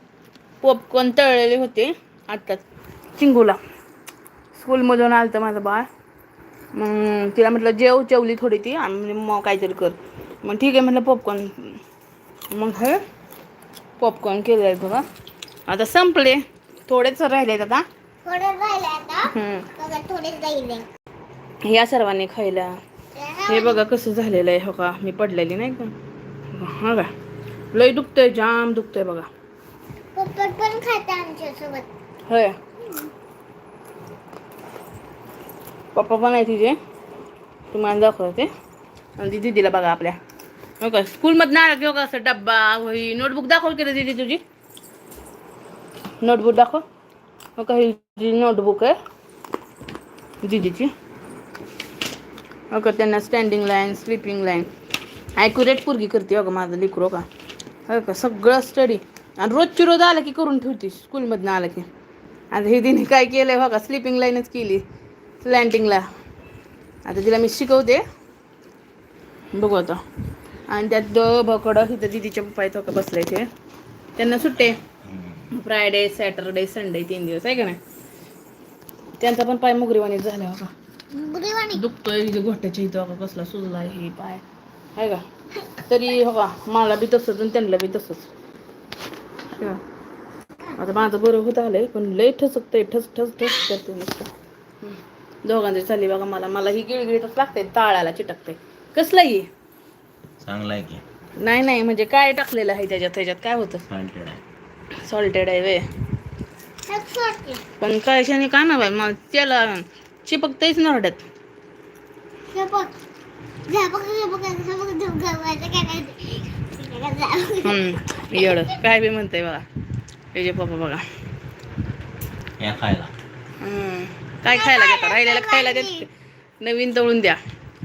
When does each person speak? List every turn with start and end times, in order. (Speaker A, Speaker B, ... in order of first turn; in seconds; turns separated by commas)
Speaker A: 0.6-2.6, Speaker A: 3.2-3.6, Speaker A: 4.5-5.9, Speaker A: 6.7-11.8, Speaker A: 12.5-13.0, Speaker A: 14.0-15.0, Speaker A: 15.7-17.8, Speaker B: 18.2-20.9, Speaker A: 19.3-19.7, Speaker A: 21.6-22.7, Speaker B: 23.1-23.8, Speaker A: 23.5-25.9, Speaker A: 26.5-27.1, Speaker A: 27.7-29.3, Speaker B: 30.1-31.9, Speaker A: 32.3-32.6, Speaker A: 35.9-36.8, Speaker A: 37.7-38.5, Speaker A: 39.2-40.2, Speaker A: 40.8-44.4, Speaker A: 46.2-46.8, Speaker A: 47.5-49.0, Speaker A: 50.4-50.9, Speaker A: 52.7-54.7, Speaker A: 55.4-57.3, Speaker A: 57.9-61.9, Speaker A: 62.5-64.8, Speaker A: 65.4-66.0, Speaker A: 67.0-68.0, Speaker A: 69.5-70.0, Speaker A: 70.7-73.5, Speaker A: 74.2-74.8, Speaker C: 75.0-75.5, Speaker A: 75.5-77.8, Speaker A: 79.2-80.7, Speaker B: 81.1-81.8, Speaker A: 81.7-84.4, Speaker A: 85.0-88.3, Speaker A: 89.5-89.8, Speaker A: 90.7-94.3, Speaker A: 94.8-99.5, Speaker C: 100.4-101.0, Speaker A: 101.4-103.8, Speaker C: 103.9-104.4, Speaker A: 105.0-105.8, Speaker B: 106.9-107.6, Speaker A: 107.8-111.2, Speaker B: 112.5-112.9, Speaker B: 113.7-118.7, Speaker A: 117.6-119.7, Speaker A: 120.3-121.0, Speaker C: 122.6-123.1, Speaker A: 123.6-126.1, Speaker B: 124.5-126.0, Speaker A: 126.6-127.4